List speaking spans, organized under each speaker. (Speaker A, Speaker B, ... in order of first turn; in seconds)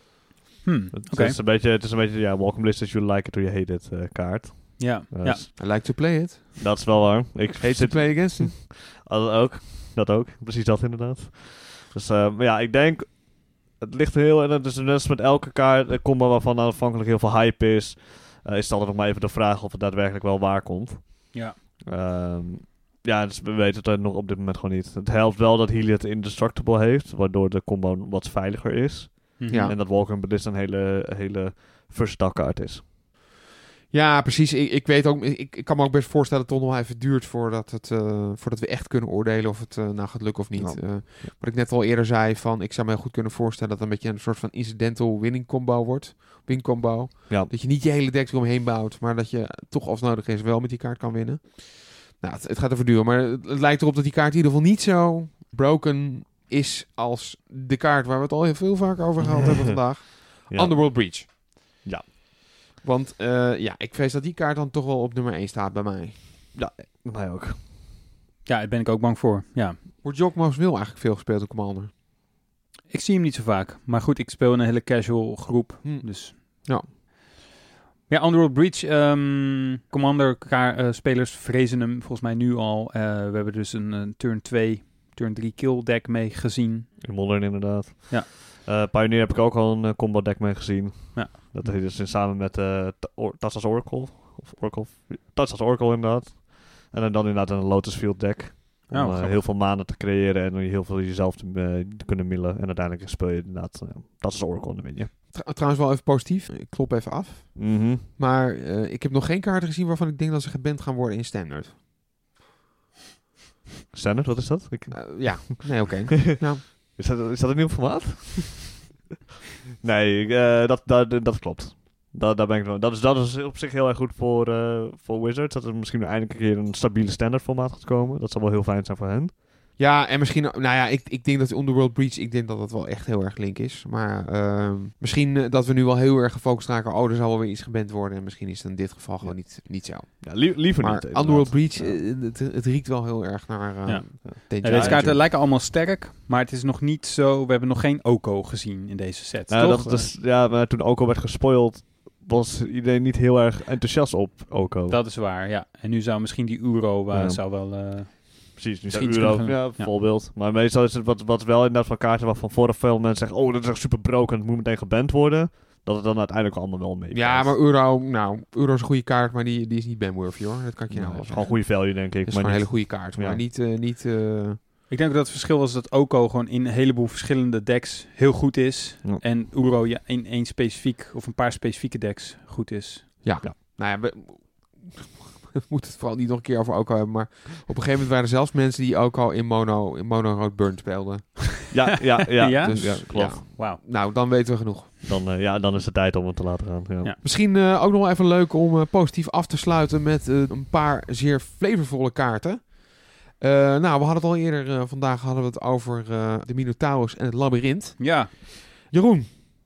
Speaker A: 0.6-1.4, 4.8-5.4, 29.4-29.7, 68.4-69.8, 72.9-76.6, 78.1-87.5, 91.1-91.8, 98.9-99.4, 143.8-150.1, 154.9-159.9, 174.9-183.4, 192.2-193.8, 208.0-208.3
Speaker B: 0.9-32.9, 40.5-41.3, 59.2-59.6, 60.5-62.1, 66.5-67.7, 87.0-105.1, 107.5-108.0, 113.9-118.9, 119.8-129.4, 139.2-142.0, 144.2-145.2, 149.5-155.0, 157.1-167.6, 170.9-173.4, 191.7-193.5, 195.1-197.1
Speaker C: 5.5-7.0, 7.6-8.5, 29.5-29.8, 33.9-61.3, 62.8-66.3, 70.0-71.9, 75.8-76.9, 105.3-111.8, 114.9-116.7, 129.8-145.2, 167.1-174.6, 183.2-191.8, 192.6-195.0, 197.2-209.4